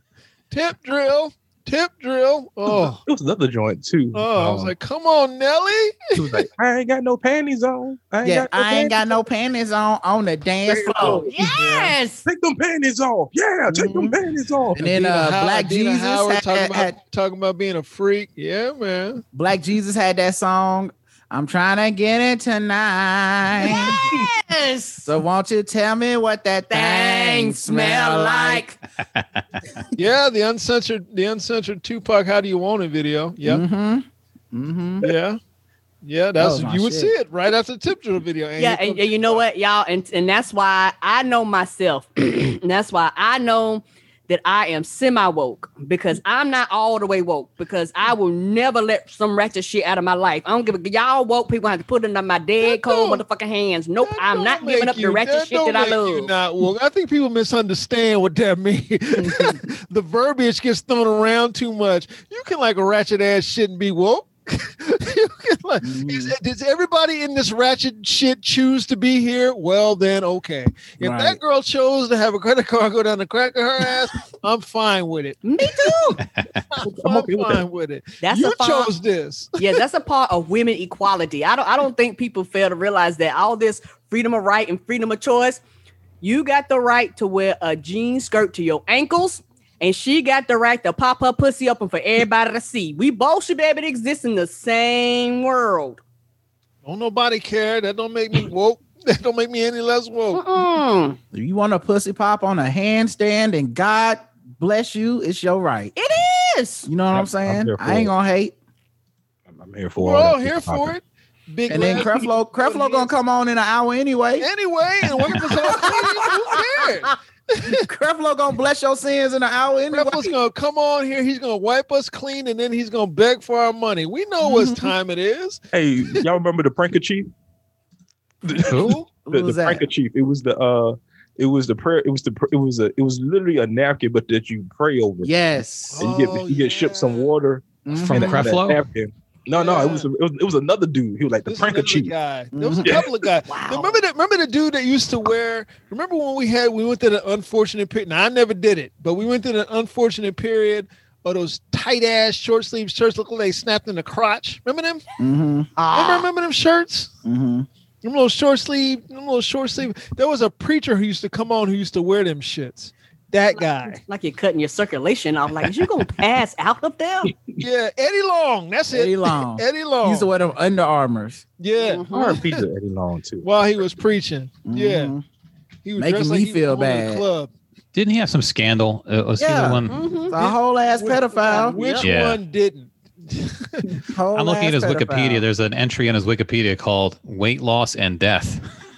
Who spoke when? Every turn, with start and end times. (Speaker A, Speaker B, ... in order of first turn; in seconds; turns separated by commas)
Speaker A: 0.5-3.0, Speaker B: 2.9-4.7, Speaker A: 4.1-6.5, Speaker B: 6.1-9.1, Speaker C: 8.2-11.3, Speaker B: 10.7-11.3, Speaker D: 11.2-12.2, Speaker A: 11.5-11.9, Speaker B: 12.2-14.9, Speaker C: 13.7-14.1, Speaker C: 14.7-16.9, Speaker A: 14.9-19.2, Speaker C: 19.3-24.0, Speaker D: 23.6-25.1, Speaker C: 25.0-28.8, Speaker D: 26.7-28.7, Speaker A: 29.9-33.6, Speaker C: 33.4-35.1, Speaker A: 35.0-35.4, Speaker A: 36.0-39.4, Speaker C: 36.4-37.1, Speaker D: 38.6-56.3, Speaker A: 52.6-53.2, Speaker A: 54.0-75.9, Speaker D: 59.2-59.6, Speaker C: 65.8-66.3, Speaker C: 71.0-71.4, Speaker D: 75.4-76.2, Speaker A: 76.7-79.8, Speaker B: 76.8-77.7, Speaker D: 78.2-78.9, Speaker D: 79.6-85.6, Speaker D: 86.2-96.0, Speaker A: 96.8-100.4, Speaker D: 100.3-101.2, Speaker C: 101.3-105.9, Speaker D: 106.0-106.9, Speaker C: 106.8-108.5, Speaker B: 107.1-108.1, Speaker B: 109.5-111.0, Speaker A: 110.0-113.1, Speaker C: 111.7-114.5, Speaker A: 114.4-117.8, Speaker C: 115.1-116.6, Speaker C: 117.6-120.3, Speaker A: 119.9-126.2, Speaker C: 124.4-124.9, Speaker B: 125.7-127.3, Speaker B: 128.4-135.3, Speaker A: 128.5-129.1, Speaker E: 128.6-129.0, Speaker C: 129.2-129.8, Speaker C: 135.2-136.2, Speaker A: 135.9-137.3, Speaker B: 136.0-142.1, Speaker C: 137.8-138.6, Speaker E: 137.9-138.8, Speaker A: 139.6-140.1, Speaker A: 141.4-155.0, Speaker C: 142.5-143.0, Speaker B: 142.8-143.1, Speaker D: 143.4-144.0, Speaker C: 155.2-156.3, Speaker D: 155.8-156.1, Speaker A: 155.9-157.1, Speaker C: 157.2-157.7, Speaker A: 158.0-164.0, Speaker D: 164.1-167.3, Speaker A: 167.6-170.3, Speaker C: 168.9-171.4, Speaker A: 171.6-172.1, Speaker D: 171.8-172.4, Speaker B: 172.1-173.5, Speaker A: 173.4-175.1, Speaker C: 174.7-175.2, Speaker A: 175.8-177.5, Speaker C: 176.0-177.2, Speaker E: 177.9-180.0, Speaker C: 179.4-181.8, Speaker D: 179.9-180.3, Speaker A: 180.3-183.9, Speaker D: 181.7-182.1, Speaker E: 182.0-182.4, Speaker C: 184.0-185.4, Speaker E: 184.3-188.6